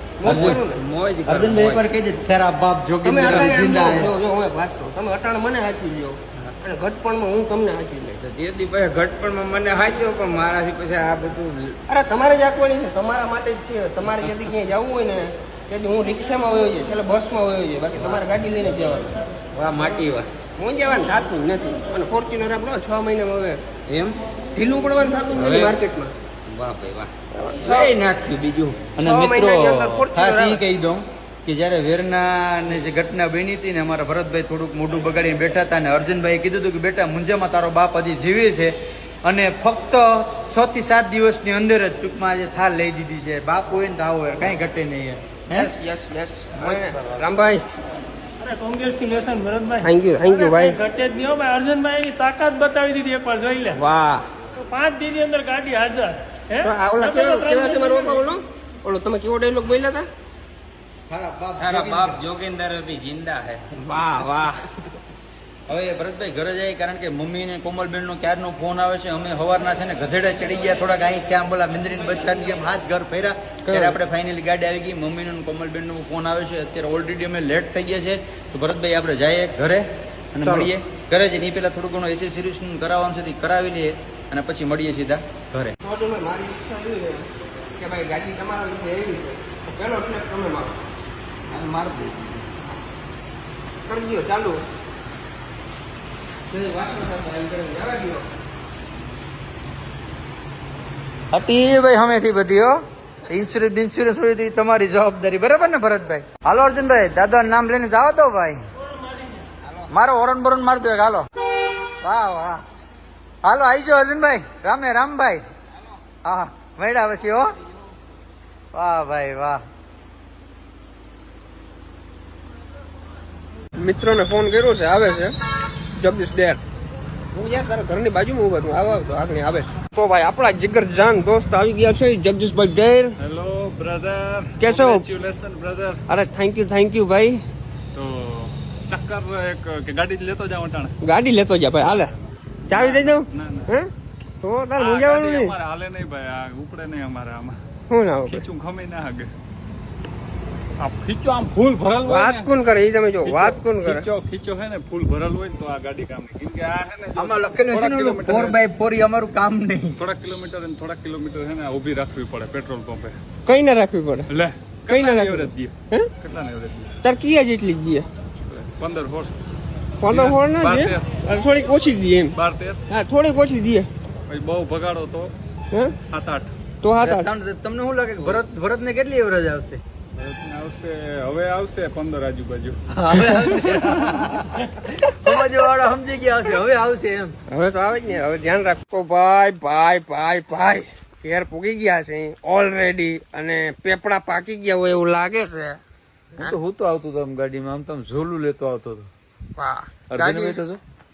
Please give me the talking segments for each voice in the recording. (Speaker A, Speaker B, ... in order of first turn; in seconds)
Speaker A: 0.2-0.8, 3.0-8.2, 11.9-19.1, 20.6-23.6, 24.6-26.1, 27.3-27.9, 29.0-30.6, 45.5-47.6, 49.8-50.8, 53.8-54.2, 56.6-60.1, 63.8-64.9, 73.6-74.0, 80.4-80.7, 85.8-87.3, 87.8-90.7, 93.8-94.6, 96.5-98.2, 123.8-125.3, 126.0-126.6, 127.3-133.2, 134.6-135.1, 136.1-137.4, 141.0-142.1, 142.7-143.9, 144.4-145.6, 147.9-148.5, 152.1-154.1, 163.5-164.3, 164.9-166.1, 167.0-168.1, 170.0-172.3, 172.9-173.9, 176.8-177.3, 187.5-195.8, 199.6-200.6
Speaker B: 0.2-1.9, 8.2-11.8, 19.5-20.3, 23.9-24.2, 25.3-25.8, 26.5-28.9, 61.6-64.2, 91.5-92.5
Speaker C: 0.2-0.6, 1.3-4.1, 29.0-38.7, 39.2-45.7, 46.6-47.0, 61.1-62.2, 65.7-85.7, 101.3-102.8, 103.3-108.6, 109.9-111.3, 112.0-112.6, 113.4-115.4, 116.2-117.5, 118.7-119.6, 157.2-160.0, 177.0-179.8, 182.9-187.4, 196.4-199.1, 200.1-200.8
Speaker D: 48.4-53.8, 54.6-58.2, 109.0-109.4
Speaker E: 133.2-136.0, 137.9-140.9, 142.7-143.7, 144.8-147.6, 148.3-149.3, 150.8-152.5, 153.2-158.6, 160.0-163.2, 164.3-166.9, 168.5-169.3, 170.1-171.1, 172.4-172.8, 174.3-175.3, 176.1-176.5, 180.2-182.8